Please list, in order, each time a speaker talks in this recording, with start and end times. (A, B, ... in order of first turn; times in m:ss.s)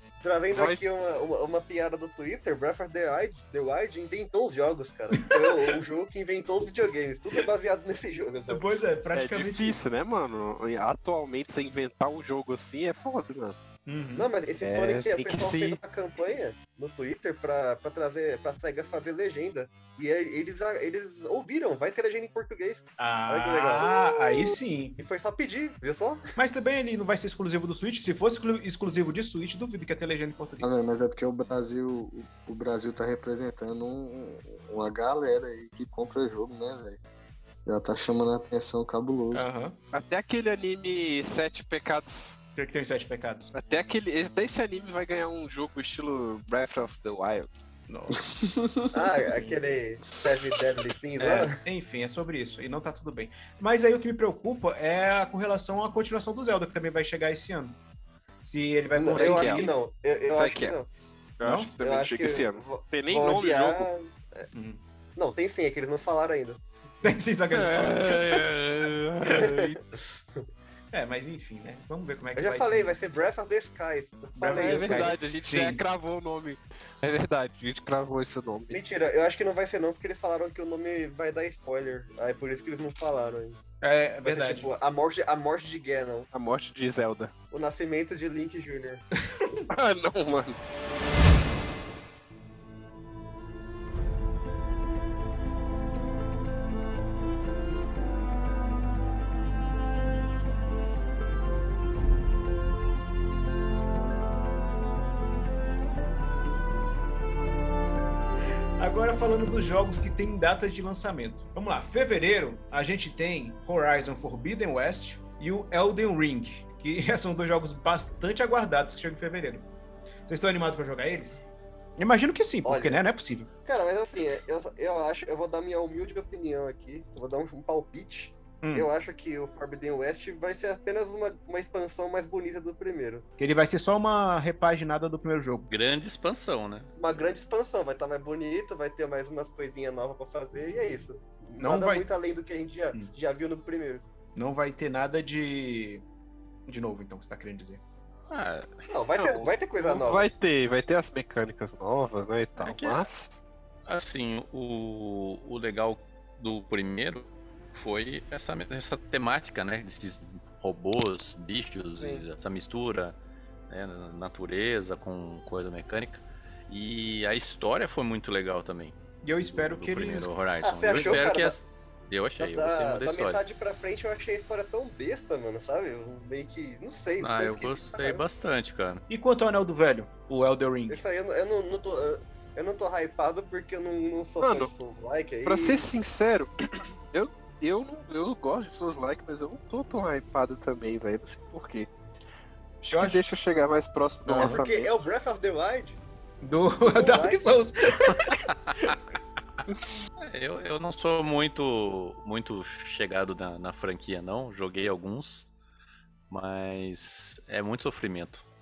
0:00.2-0:08.7 A
0:00.5-0:00.8 B
0:05.1-0:05.6 C
0:08.5-0:09.8 C
0:09.1-0:13.6 B
0:13.9-0:14.3 C
0:14.2-0:24.4 A
0:14.6-0:15.8 B
0:23.0-0:25.0 C
0:25.0-0:26.2 A
0:26.4-0:30.8 C
0:30.6-0:37.0 D
0:37.7-0:39.5 D
0:39.3-0:39.8 C
0:39.9-0:42.4 B
0:42.6-0:43.5 C
0:43.5-0:47.5 B
0:47.9-0:48.3 C
0:48.3-0:48.9 D
0:48.9-0:51.6 A
0:49.3-0:49.6 C
0:51.2-0:57.8 C
0:58.4-0:59.8 C
0:59.0-1:00.9 A
0:59.1-0:59.7 B
1:00.4-1:00.8 B
1:01.4-1:03.9 B
1:01.4-1:01.7 C
1:01.8-1:04.5 A
1:04.5-1:04.8 C
1:05.2-1:06.6 A
1:07.0-1:08.5 C
1:07.5-1:09.8 B
1:09.4-1:10.5 A
1:10.9-1:13.0 C
1:12.4-1:15.2 A
1:14.4-1:15.8 C
1:14.5-1:18.8 B
1:18.7-1:23.6 A
1:23.8-1:24.7 C
1:24.2-1:26.3 A
1:26.3-1:27.3 B
1:27.5-1:29.0 A
1:29.2-1:29.7 C
1:29.7-1:30.6 B
1:48.8-1:59.7 C
2:00.3-2:01.4 C
2:02.0-2:03.5 C
2:02.6-2:03.0 A
2:03.6-2:13.3 A
2:08.6-2:08.9 C
2:13.4-2:15.7 C
2:15.7-2:16.9 E
2:17.0-2:24.0 A
2:21.6-2:22.1 C
2:24.4-2:26.0 C
2:26.7-2:27.8 C
2:28.3-2:28.8 E
2:28.9-2:30.3 A
2:29.2-2:33.4 B
2:32.6-2:33.0 A
2:33.9-2:43.2 E
2:42.0-2:42.2 A
2:43.7-2:49.0 E
2:49.2-2:50.3 C
2:49.5-2:53.4 E
2:50.6-2:51.6 A
2:52.4-2:58.2 A
2:57.2-2:59.0 E
2:59.1-3:01.0 C
3:00.9-3:05.8 A
3:04.4-3:04.7 B
3:05.4-3:11.9 B
3:12.8-3:14.9 B
3:12.9-3:13.2 C
3:14.3-3:14.6 C
3:14.4-3:16.0 A
3:16.4-3:18.9 C
3:16.8-3:17.5 A
3:18.5-3:19.0 E
3:20.2-3:25.5 E
3:26.3-3:28.4 E